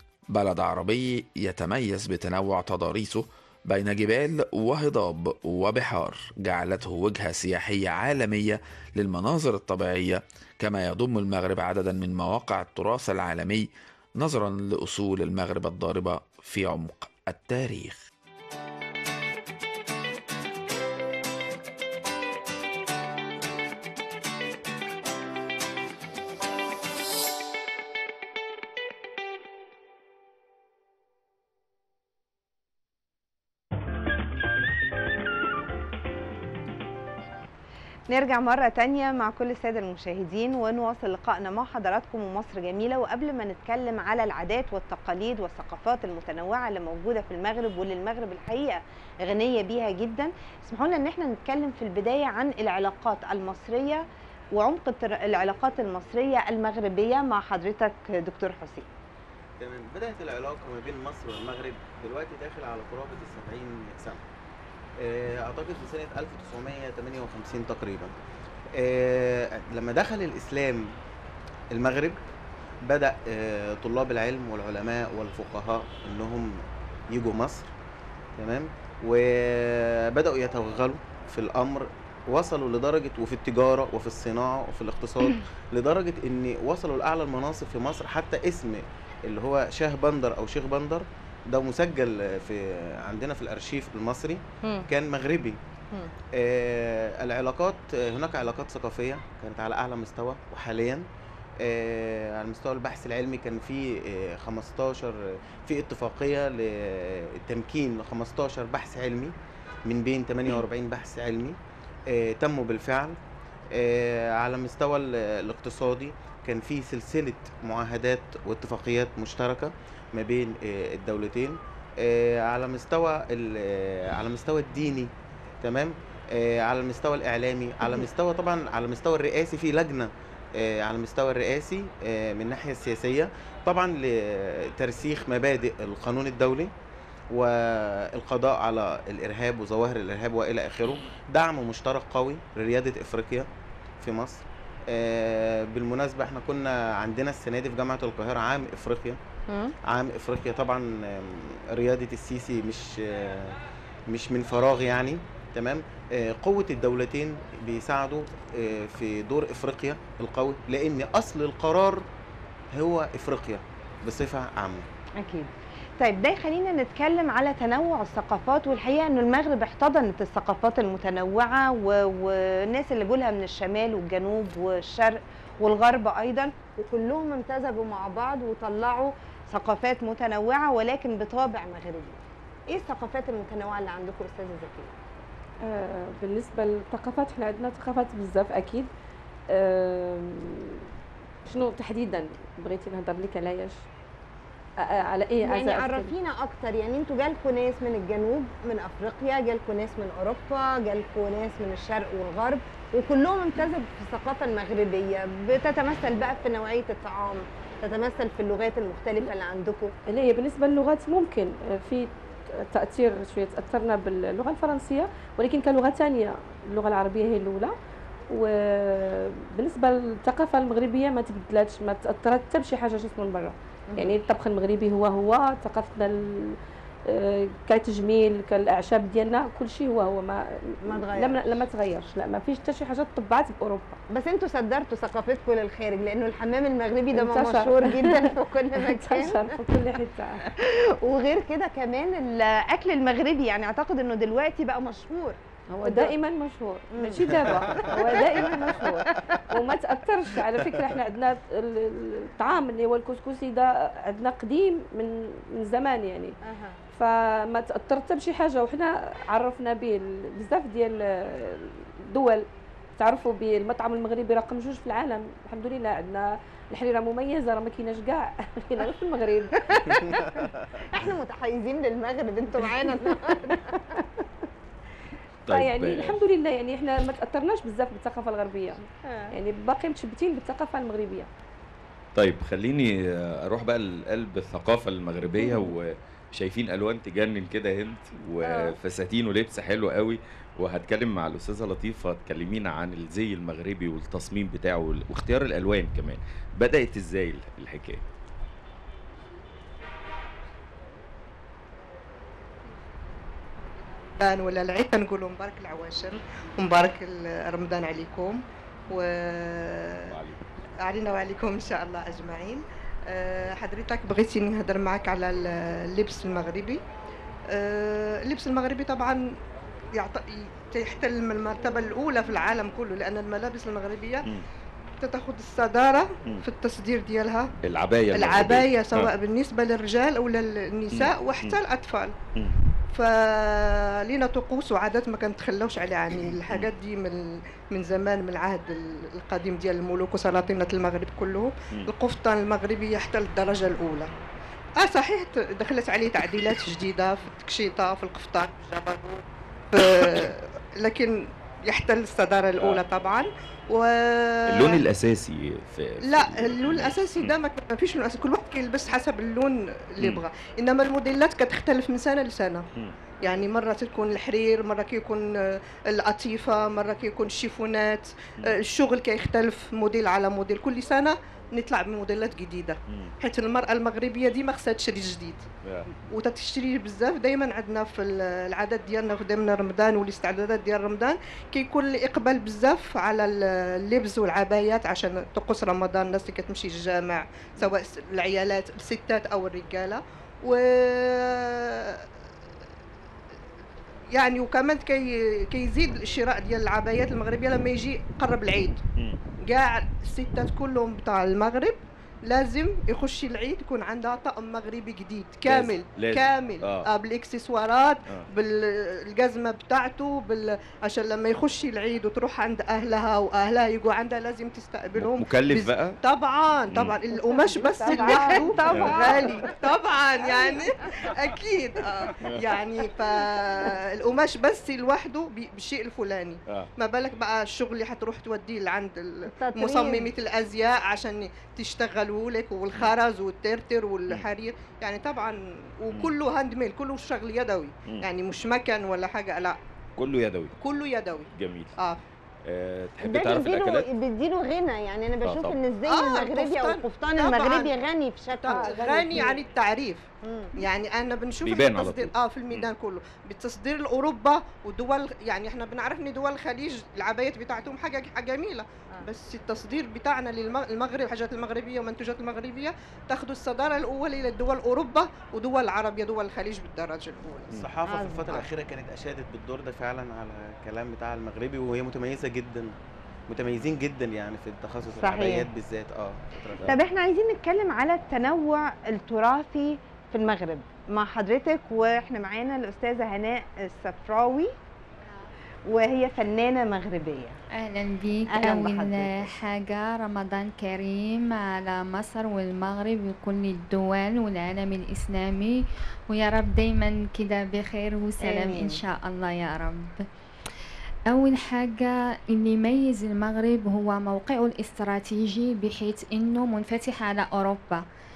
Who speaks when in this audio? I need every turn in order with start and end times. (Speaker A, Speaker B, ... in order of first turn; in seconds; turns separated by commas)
Speaker A: 0.3-18.0, Speaker B: 38.1-58.9, Speaker C: 59.6-64.2, Speaker C: 65.0-68.1, Speaker C: 68.8-70.9, Speaker C: 71.7-72.2, Speaker C: 72.8-77.7, Speaker C: 78.4-95.6, Speaker C: 96.3-101.1, Speaker C: 101.6-109.3, Speaker C: 109.8-113.2, Speaker C: 113.7-125.1, Speaker C: 125.6-136.7, Speaker C: 137.3-143.5, Speaker C: 144.0-149.2, Speaker B: 149.5-149.7, Speaker C: 149.8-153.6, Speaker C: 154.1-162.1, Speaker C: 162.7-164.9, Speaker B: 165.2-184.9, Speaker D: 185.6-188.9, Speaker D: 189.5-190.8, Speaker D: 191.4-193.8, Speaker D: 194.8-196.1, Speaker B: 195.4-209.9, Speaker D: 210.1-217.7, Speaker D: 218.3-226.6, Speaker D: 227.1-234.0, Speaker B: 230.8-231.6, Speaker B: 234.1-239.6, Speaker D: 237.1-240.4, Speaker B: 240.5-246.1, Speaker D: 245.7-256.3, Speaker B: 246.9-249.2, Speaker B: 256.4-256.8, Speaker D: 256.9-269.6, Speaker B: 269.6-274.0, Speaker E: 275.4-276.2, Speaker D: 275.5-281.3, Speaker B: 279.1-279.3, Speaker E: 282.1-298.0, Speaker F: 304.2-310.1, Speaker E: 310.1-310.4, Speaker F: 310.8-316.8, Speaker F: 317.5-319.3, Speaker F: 319.9-324.3, Speaker F: 325.0-327.5, Speaker E: 327.6-329.1, Speaker F: 328.1-332.1, Speaker E: 330.9-331.6, Speaker F: 332.9-344.1, Speaker E: 336.3-336.7, Speaker F: 344.8-354.8, Speaker E: 354.5-357.3, Speaker F: 356.0-362.6, Speaker F: 363.2-375.4, Speaker F: 376.1-392.1, Speaker F: 394.1-398.8, Speaker F: 399.4-439.6, Speaker E: 405.4-406.9, Speaker E: 415.0-415.9, Speaker D: 417.1-419.5, Speaker E: 418.7-419.0, Speaker E: 422.2-422.5, Speaker B: 429.3-430.1, Speaker E: 440.0-440.5, Speaker F: 440.6-442.0, Speaker E: 441.3-441.7, Speaker E: 442.4-443.9, Speaker B: 443.0-449.4, Speaker E: 445.2-445.6, Speaker F: 445.9-447.7, Speaker F: 448.4-467.5, Speaker D: 448.5-449.3, Speaker B: 450.2-450.5, Speaker E: 451.4-452.7, Speaker C: 467.5-472.7, Speaker B: 467.9-468.4, Speaker C: 473.3-476.8, Speaker B: 475.0-475.5, Speaker B: 476.6-484.5, Speaker B: 485.7-487.4, Speaker G: 487.5-500.0, Speaker B: 488.3-489.3, Speaker B: 498.2-498.8, Speaker G: 501.1-507.8